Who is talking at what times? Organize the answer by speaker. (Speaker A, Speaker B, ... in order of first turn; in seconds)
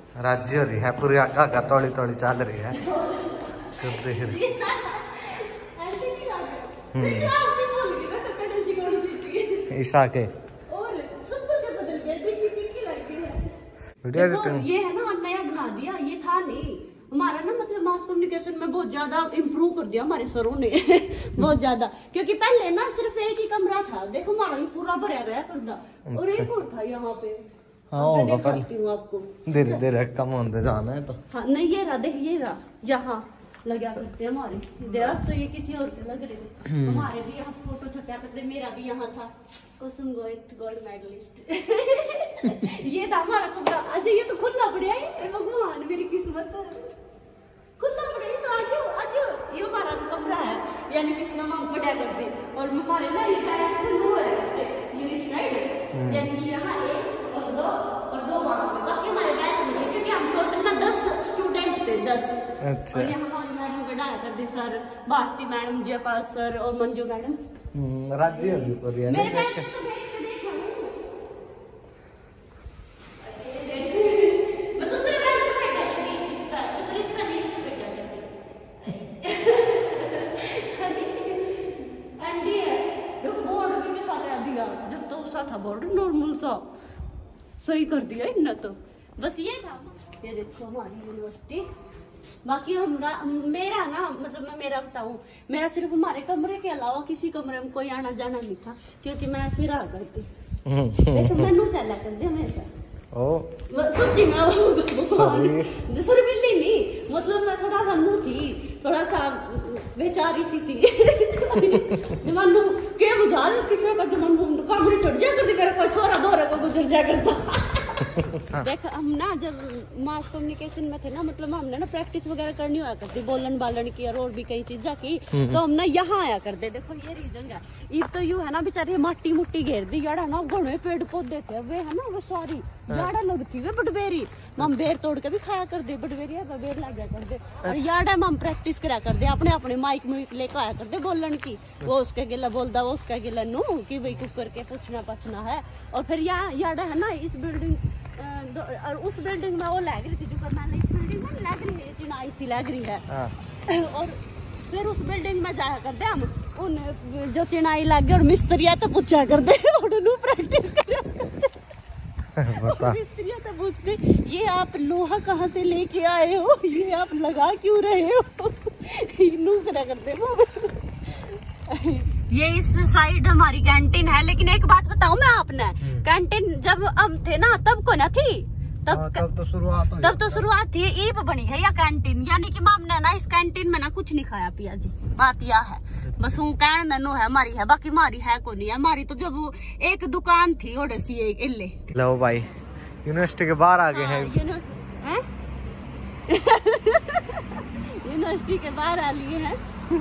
Speaker A: 0.2-2.8, 3.8-4.4, 6.9-7.3, 9.7-10.3, 14.0-14.7, 26.1-26.5, 27.9-28.7, 29.5-31.2, 36.7-37.1, 55.9-56.3, 62.6-63.2, 67.7-69.7, 100.7-101.5, 103.1-103.5, 105.0-105.8, 125.3-125.6, 137.6-137.9, 162.4-163.0, 175.8-176.1, 178.9-180.5, 191.9-192.5, 193.1-194.4
Speaker B: 2.7-9.7, 10.7-13.5, 14.1-29.8, 31.3-46.9, 47.8-67.4, 69.1-71.0, 73.2-78.3, 78.8-86.7, 87.6-91.7, 92.4-100.3, 101.1-102.7, 103.7-153.1, 153.7-154.2, 154.7-161.5, 162.6-179.2, 180.0-191.8, 193.9-195.2, 196.3-199.6